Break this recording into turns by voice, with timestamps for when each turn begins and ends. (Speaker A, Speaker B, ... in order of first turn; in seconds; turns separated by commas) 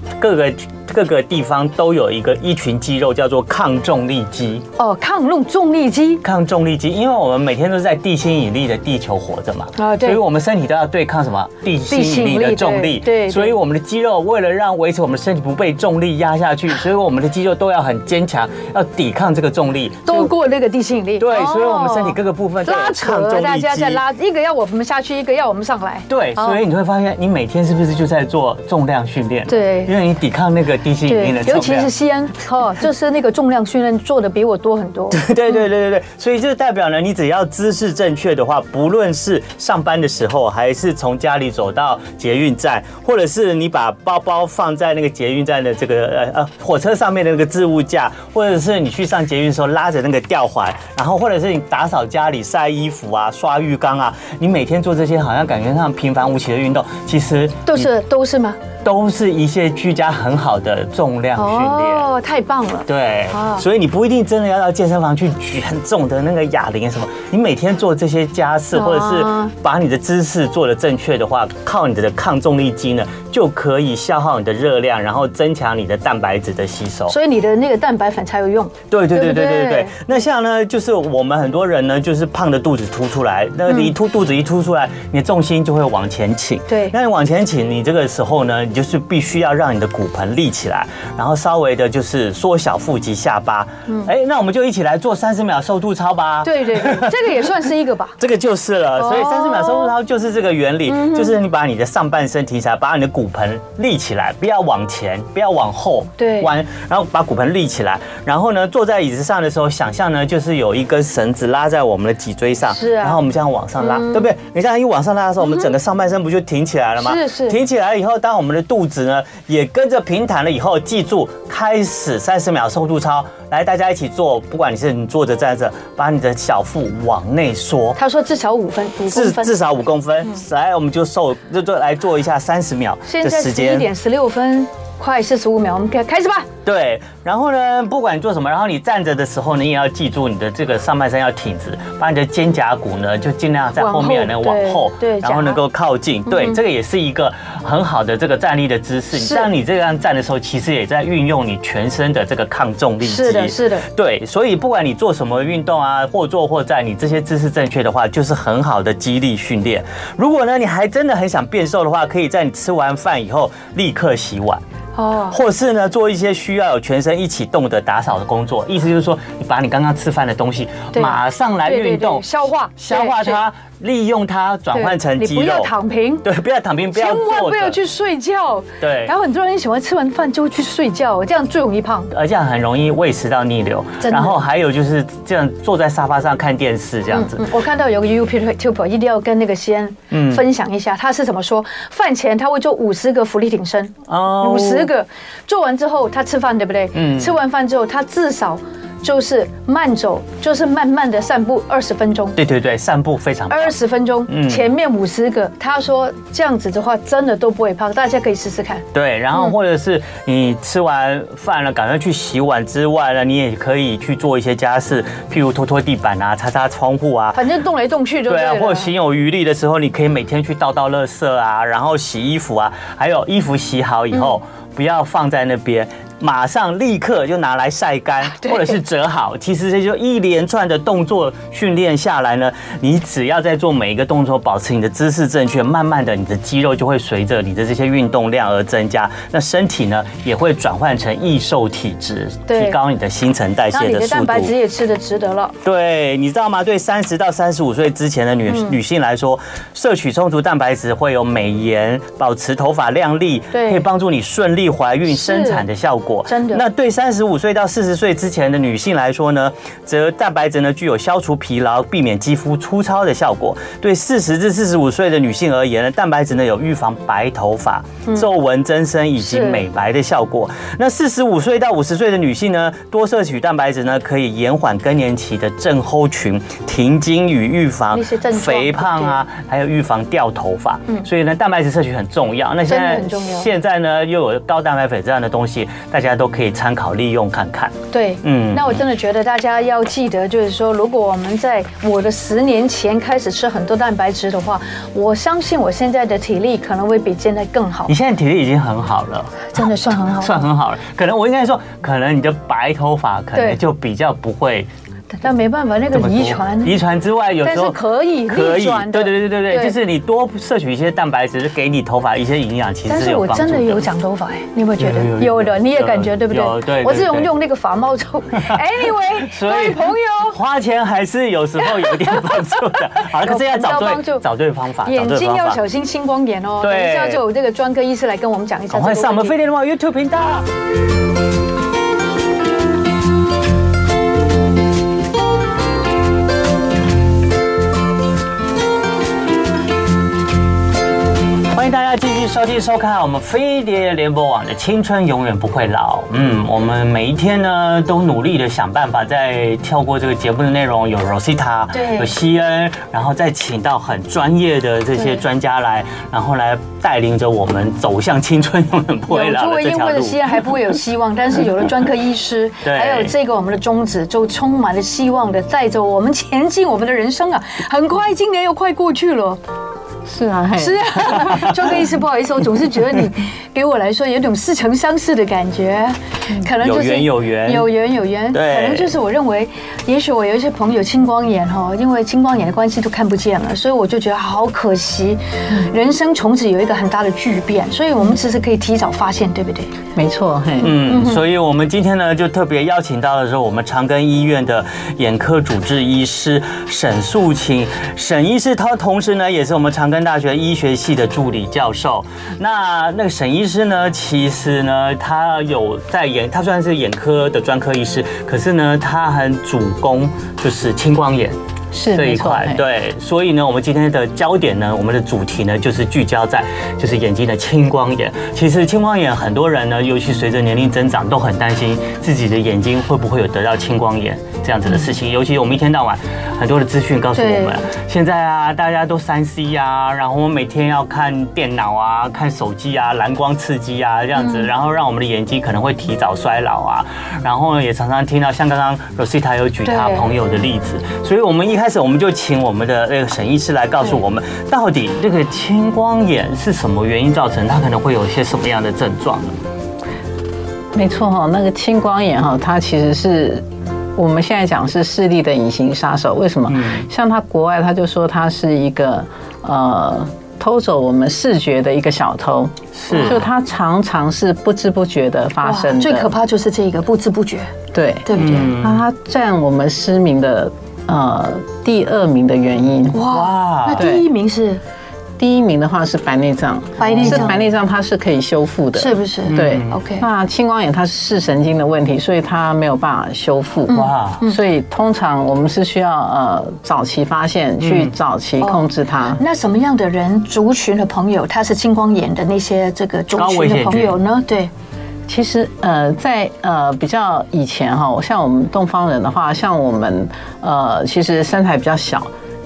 Speaker A: 0.2-4.6, Speaker B: 4.8-6.2, Speaker A: 6.2-20.3, Speaker B: 9.8-10.2, Speaker B: 11.9-13.6, Speaker B: 20.1-26.6, Speaker A: 21.2-24.0, Speaker A: 26.1-31.9, Speaker B: 29.5-29.9, Speaker B: 31.1-35.2, Speaker A: 35.1-57.9, Speaker B: 57.6-58.6, Speaker A: 58.8-62.1, Speaker B: 61.4-63.6, Speaker A: 62.9-77.2, Speaker B: 68.7-69.5, Speaker B: 77.1-80.0, Speaker A: 78.9-97.3, Speaker B: 83.7-83.9, Speaker B: 86.7-86.9, Speaker B: 96.4-98.2, Speaker A: 98.2-128.0, Speaker B: 99.0-99.9, Speaker B: 100.9-101.3, Speaker B: 106.2-106.5, Speaker B: 112.7-113.2, Speaker B: 113.8-114.3, Speaker B: 117.0-117.6, Speaker B: 128.0-129.5, Speaker A: 129.1-133.9, Speaker B: 133.1-136.5, Speaker A: 136.6-164.6, Speaker B: 143.8-145.6, Speaker B: 146.3-146.6, Speaker B: 149.1-149.5, Speaker B: 153.0-153.9, Speaker B: 165.0-165.4, Speaker A: 165.3-175.7, Speaker B: 170.9-173.4, Speaker B: 174.7-176.2, Speaker A: 176.2-177.8, Speaker B: 176.9-182.1, Speaker A: 178.8-179.1, Speaker A: 182.1-187.4, Speaker B: 184.0-184.4, Speaker B: 187.1-202.4, Speaker A: 190.1-190.4, Speaker A: 194.1-194.9, Speaker A: 196.9-197.3, Speaker A: 202.4-204.7, Speaker B: 203.5-208.8, Speaker A: 208.9-217.4, Speaker B: 217.3-218.9, Speaker A: 218.3-244.5, Speaker B: 228.3-228.8, Speaker B: 242.5-242.8, Speaker B: 243.7-245.5, Speaker A: 245.6-288.8, Speaker B: 248.5-248.8, Speaker B: 253.5-253.8, Speaker B: 255.1-255.6, Speaker B: 256.3-256.6, Speaker B: 269.2-269.6, Speaker B: 277.9-279.2, Speaker B: 282.7-283.5, Speaker B: 287.9-297.9, Speaker A: 297.9-304.7, Speaker B: 299.5-300.4, Speaker B: 305.2-306.8, Speaker A: 305.9-313.9, Speaker B: 307.4-309.8, Speaker B: 312.9-320.4, Speaker A: 314.8-317.3, Speaker A: 318.5-325.6, Speaker B: 321.6-324.2, Speaker B: 324.9-329.4, Speaker A: 326.6-327.2, Speaker A: 328.7-330.4, Speaker A: 341.5-360.3, Speaker B: 351.7-352.1, Speaker B: 359.1-369.4, Speaker A: 362.6-363.1, Speaker C: 370.1-371.3, Speaker B: 370.6-389.8, Speaker A: 376.6-377.7, Speaker A: 378.3-378.9, Speaker C: 389.9-390.8, Speaker A: 390.6-411.4, Speaker B: 390.8-391.2, Speaker C: 411.7-412.6, Speaker A: 411.9-449.4, Speaker B: 427.1-427.7, Speaker B: 434.1-434.5, Speaker B: 439.6-440.1, Speaker C: 450.7-453.4, Speaker C: 454.0-466.1, Speaker A: 456.5-456.9, Speaker A: 462.8-463.2, Speaker B: 465.4-467.5, Speaker C: 467.7-473.0, Speaker B: 468.1-468.5, Speaker A: 468.1-468.9, Speaker B: 472.9-474.6, Speaker A: 473.0-473.9, Speaker C: 473.8-474.0, Speaker C: 475.2-489.2, Speaker B: 476.8-477.3, Speaker A: 477.0-477.4, Speaker B: 478.8-480.1, Speaker A: 479.3-479.8, Speaker B: 483.7-484.4, Speaker A: 483.7-484.2, Speaker A: 487.6-487.9, Speaker B: 488.4-494.5, Speaker A: 493.1-494.0, Speaker C: 495.1-502.1